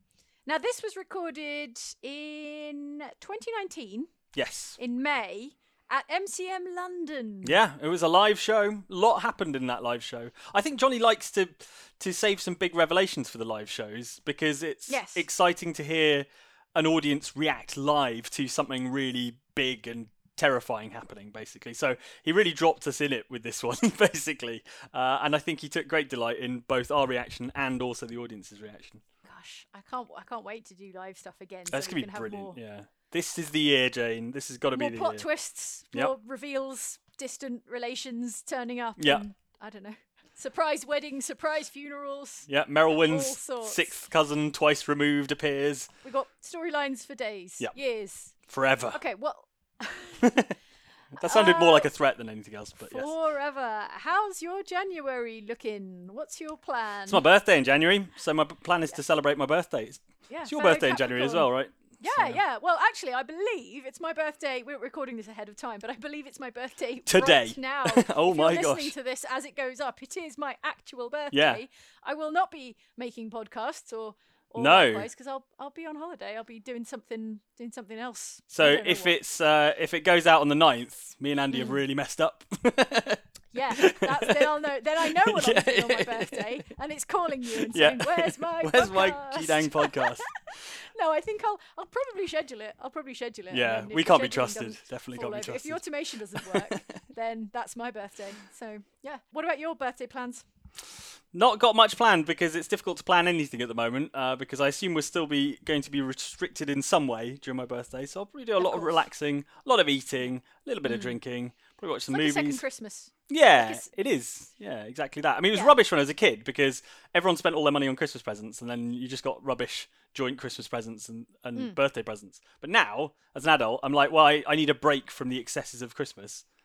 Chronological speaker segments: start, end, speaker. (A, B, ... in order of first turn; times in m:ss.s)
0:00.5-0:04.1 A
0:04.4-0:04.8 B
0:04.8-0:07.6 A
0:07.4-0:29.0 B
0:14.9-0:15.3 A
0:29.2-0:32.6 A
0:31.7-0:35.3 B
0:34.7-0:44.0 A
0:42.5-0:45.9 B
0:46.0-0:48.3 A
0:48.5-0:49.0 B
0:48.9-0:50.3 A
0:50.2-0:50.5 B
0:51.2-0:53.1 B
0:51.2-0:51.9 A
0:52.8-0:57.3 A
0:57.1-1:02.4 B
1:00.3-1:19.2 A
1:07.1-1:08.9 B
1:11.3-1:11.6 B
1:14.6-1:15.1 B
1:18.5-1:23.2 B
1:21.5-1:21.8 A
1:23.5-1:30.3 A
1:23.7-1:26.5 B
1:27.6-1:30.2 B
1:30.9-1:40.4 A
1:33.5-1:35.8 B
1:36.4-1:36.8 B
1:41.3-1:52.6 B
1:48.6-1:49.0 A
1:50.8-1:51.2 A
1:52.1-1:53.9 A
1:53.3-2:06.4 B
1:55.5-1:55.8 A